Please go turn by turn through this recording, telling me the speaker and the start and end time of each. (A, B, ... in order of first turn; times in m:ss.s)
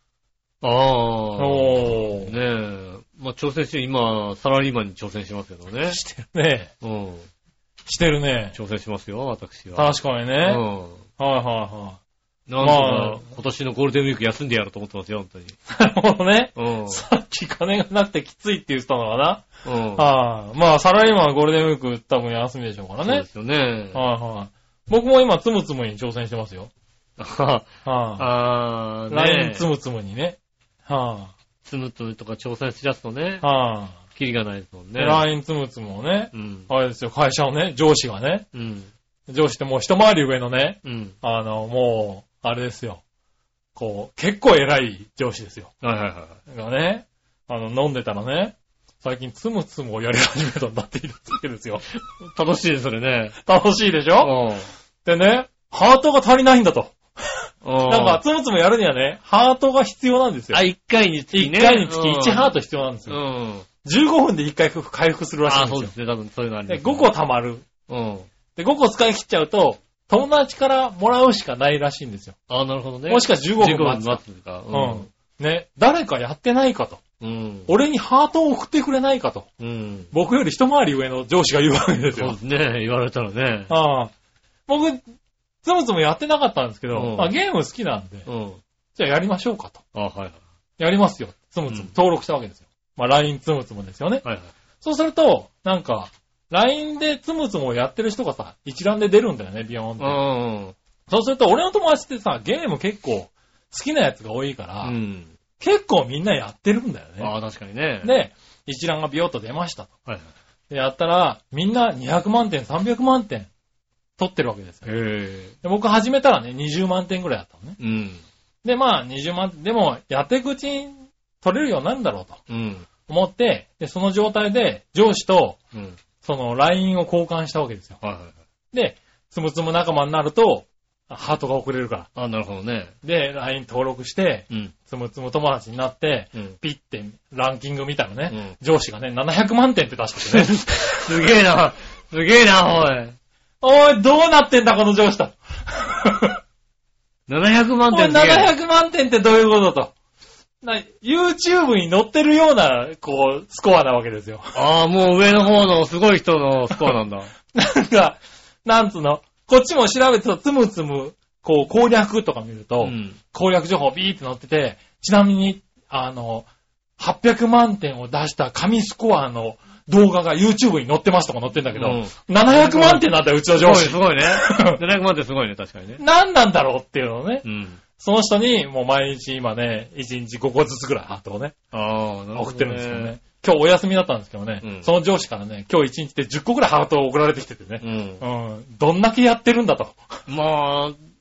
0:00.6-0:06.0 A
0:01.4-0:02.3 B
0:05.9-0:06.7 B
0:06.8-0:07.3 A
0:07.9-0:08.6 B
0:08.5-0:09.9 A
0:09.8-0:10.6 B
0:10.4-0:11.0 A
0:11.2-0:12.0 B
0:12.5-0:15.6 A
0:12.6-0:13.2 B
0:15.7-0:23.3 B
0:16.6-0:17.0 A
0:19.6-0:20.1 A
0:23.0-0:24.0 A
0:23.9-0:26.7 B
0:27.2-0:29.7 A
0:27.8-0:28.3 B
0:29.1-0:31.3 B
0:31.6-0:33.4 A
0:33.4-0:34.0 B
0:34.1-0:35.2 A
0:35.0-0:38.5 B
0:36.3-0:36.7 A
0:38.5-0:38.9 A
0:39.3-0:43.0 B
0:40.8-0:41.2 A
0:43.8-0:45.7 B
0:45.8-0:46.4 A
0:46.5-0:51.8 B
0:52.2-0:53.4 A
0:53.4-0:54.3 B
0:54.2-0:54.7 A
0:55.0-0:57.0 B
0:57.6-0:58.2 A
0:57.9-1:00.6 B
1:00.5-1:02.5 A
1:01.3-1:03.2 B
1:03.1-1:03.7 A
1:03.8-1:05.9 B
1:05.5-1:07.1 A
1:06.7-1:07.7 B
1:07.9-1:08.3 A
1:08.6-1:12.4 B
1:12.5-1:15.1 A
1:13.1-1:14.2 B
1:14.7-1:17.0 B
1:17.2-1:17.7 A
1:17.7-1:19.5 B
1:19.6-1:20.1 A
1:20.1-1:22.4 B
1:22.2-1:23.7 A
1:23.7-1:24.1 B
1:24.7-1:25.0 B
1:25.6-1:28.3 B
1:26.9-1:27.3 A
1:28.3-1:28.6 A
1:29.0-1:29.8 B
1:30.0-1:30.4 A
1:30.8-1:34.2 B
1:34.2-1:34.5 A
1:34.8-1:40.2 B
1:40.0-1:40.8 A
1:41.1-1:44.9 B
1:44.8-1:45.3 A
1:45.6-1:47.3 B
1:47.2-1:48.1 A
1:48.0-1:49.9 B
1:50.7-1:53.5 B
1:54.2-1:54.9 B
1:54.8-1:55.5 A
1:55.6-1:57.8 B
1:57.8-1:58.2 A
1:58.6-2:02.4 B
2:02.5-2:02.9 A
2:03.1-2:05.6 B
2:05.7-2:06.0 A
2:06.2-2:08.0 B
2:08.0-2:08.4 A
2:08.7-2:12.1 B
2:12.2-2:12.9 A
2:13.0-2:21.1 B
2:18.3-2:18.6 A
2:20.3-2:23.2 A
2:23.6-2:26.4 B
2:27.3-2:28.5 A
2:27.9-2:29.9 B
2:30.6-2:34.5 B
2:34.6-2:37.3 A
2:37.5-2:46.5 B
2:42.8-2:43.2 A
2:47.0-2:54.8 B
2:51.8-2:56.0 A
2:56.0-2:57.4 B
2:57.4-2:57.8 A
2:58.0-3:01.6 B
3:01.7-3:03.2 A
3:02.4-3:10.1 B
3:04.6-3:04.9 A
3:07.8-3:08.2 A
3:10.3-3:11.0 A